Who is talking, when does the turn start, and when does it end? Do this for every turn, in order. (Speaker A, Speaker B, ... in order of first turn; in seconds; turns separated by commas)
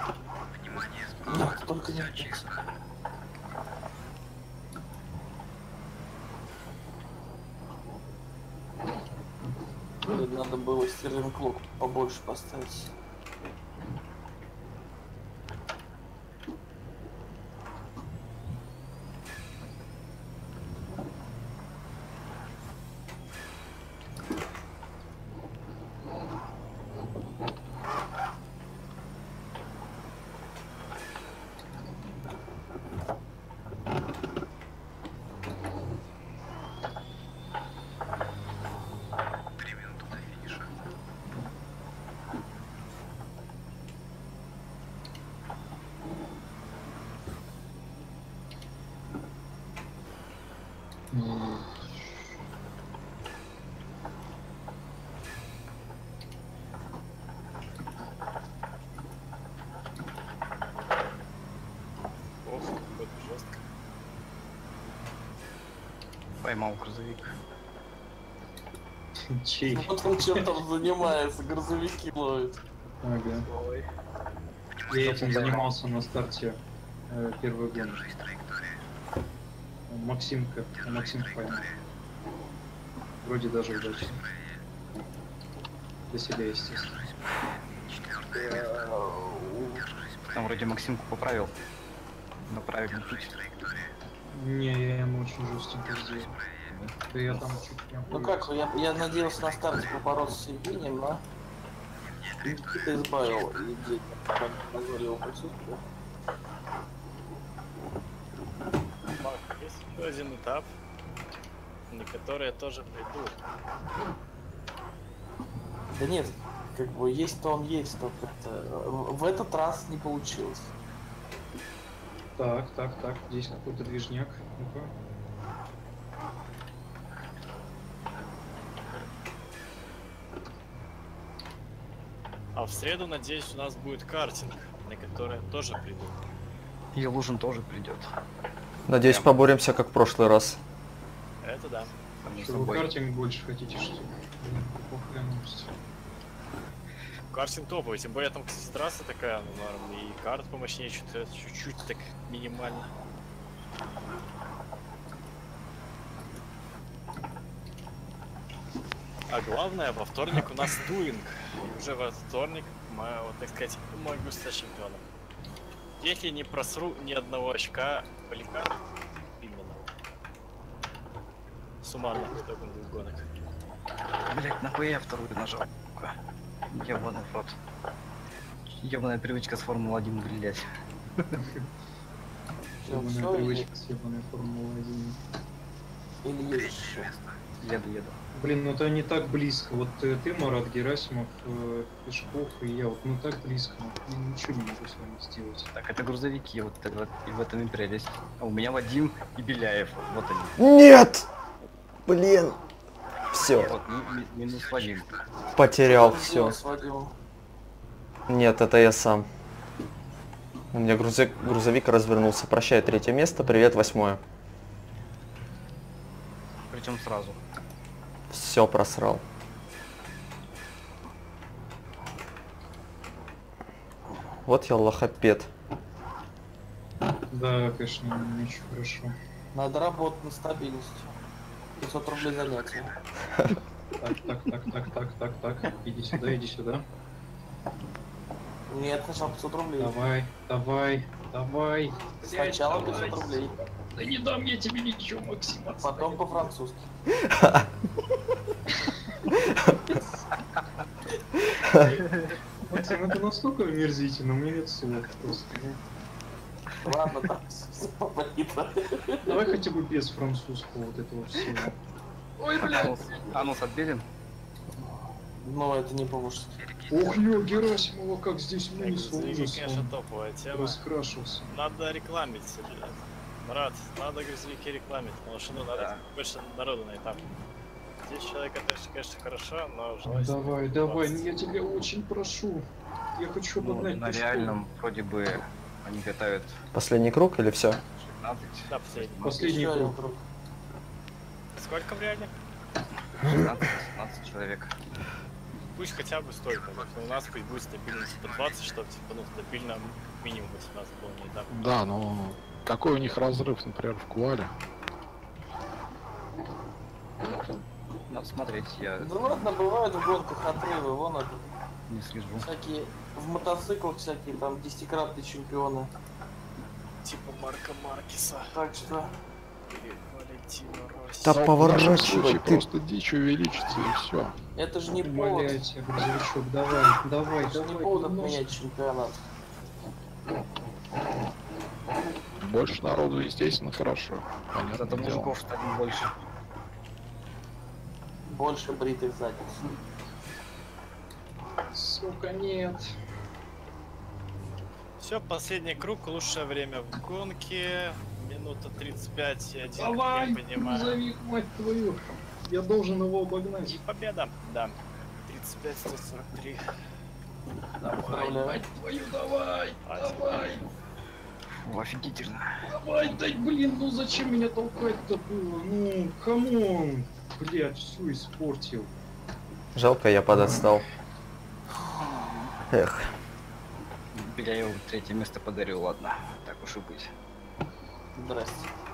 Speaker A: 1.3-2.4, Speaker A: 10.1-12.9, Speaker B: 40.0-40.6, Speaker C: 51.1-51.8, Speaker D: 62.4-63.6, Speaker B: 66.4-67.3, Speaker C: 69.3-70.5, Speaker A: 69.7-72.6, Speaker C: 73.0-73.5, Speaker B: 73.5-73.9, Speaker C: 74.9-78.0, Speaker B: 75.0-75.6, Speaker A: 75.3-75.7, Speaker C: 79.9-81.7, Speaker C: 83.2-84.2, Speaker C: 86.1-87.1, Speaker A: 88.3-89.9, Speaker B: 90.3-91.5, Speaker B: 92.5-93.8, Speaker C: 94.3-96.3, Speaker B: 96.7-96.9, Speaker C: 97.1-98.5, Speaker A: 98.1-101.2, Speaker A: 102.4-105.8, Speaker D: 109.2-110.7, Speaker D: 111.9-113.3, Speaker A: 115.9-120.7, Speaker C: 122.4-124.9, Speaker D: 132.6-136.2, Speaker B: 136.9-138.1, Speaker E: 138.9-140.6, Speaker B: 139.0-139.4, Speaker D: 141.4-141.9, Speaker B: 142.2-142.9, Speaker C: 142.3-145.7, Speaker D: 147.3-152.9, Speaker D: 159.3-165.0, Speaker D: 166.0-168.8, Speaker D: 169.4-169.9, Speaker D: 171.8-173.3, Speaker B: 174.3-176.1, Speaker B: 176.7-177.6, Speaker B: 178.7-180.6, Speaker C: 181.4-181.6, Speaker A: 182.8-183.7, Speaker C: 182.9-185.2, Speaker A: 186.2-187.1, Speaker B: 187.5-188.2, Speaker C: 188.3-195.7, Speaker B: 195.7-200.6, Speaker E: 200.6-201.3, Speaker E: 202.1-202.6, Speaker E: 203.3-203.7, Speaker B: 203.6-205.2, Speaker E: 205.6-206.6, Speaker A: 205.8-207.2, Speaker E: 208.3-209.3, Speaker E: 210.7-214.2, Speaker B: 216.7-217.4, Speaker E: 218.3-219.2, Speaker E: 224.5-225.5, Speaker C: 227.3-229.1, Speaker A: 229.5-231.1, Speaker A: 231.8-232.9, Speaker C: 234.0-236.8, Speaker A: 238.7-240.0, Speaker C: 239.8-246.5, Speaker A: 242.3-243.6, Speaker A: 245.8-246.9, Speaker E: 247.3-247.7, Speaker B: 251.9-252.3, Speaker C: 252.7-255.8, Speaker A: 256.8-259.5, Speaker C: 259.2-261.8, Speaker C: 262.4-263.5, Speaker B: 262.6-264.1, Speaker A: 264.8-266.6, Speaker B: 266.6-267.5, Speaker C: 266.9-269.9, Speaker D: 268.8-270.8, Speaker C: 270.5-271.5, Speaker D: 271.5-277.2, Speaker B: 275.7-276.0, Speaker D: 278.0-281.3, Speaker C: 280.1-284.6, Speaker B: 283.6-286.6, Speaker E: 286.7-287.8, Speaker B: 287.9-289.4, Speaker D: 288.7-289.2, Speaker C: 289.2-290.0, Speaker A: 289.3-290.2, Speaker D: 291.6-292.3, Speaker B: 293.2-294.7, Speaker D: 295.8-301.6, Speaker F: 301.5-304.5, Speaker B: 308.1-309.4, Speaker A: 309.0-311.5, Speaker B: 311.9-312.5, Speaker A: 312.4-315.9, Speaker D: 317.0-318.6, Speaker A: 318.5-319.1, Speaker D: 319.7-321.4, Speaker E: 321.2-322.6, Speaker F: 321.3-324.4, Speaker A: 324.6-325.6, Speaker C: 325.0-328.6, Speaker A: 327.4-329.2, Speaker F: 332.4-335.4, Speaker B: 334.7-336.1, Speaker A: 338.3-339.5, Speaker C: 341.7-342.9, Speaker D: 345.0-351.0, Speaker C: 349.8-353.8, Speaker D: 353.6-356.6, Speaker C: 357.8-360.6, Speaker A: 357.9-358.7, Speaker D: 359.8-360.4, Speaker B: 361.5-362.6, Speaker C: 362.7-368.9, Speaker E: 369.8-370.9, Speaker C: 370.3-370.8, Speaker E: 372.7-373.1, Speaker B: 374.1-377.1, Speaker A: 378.1-378.7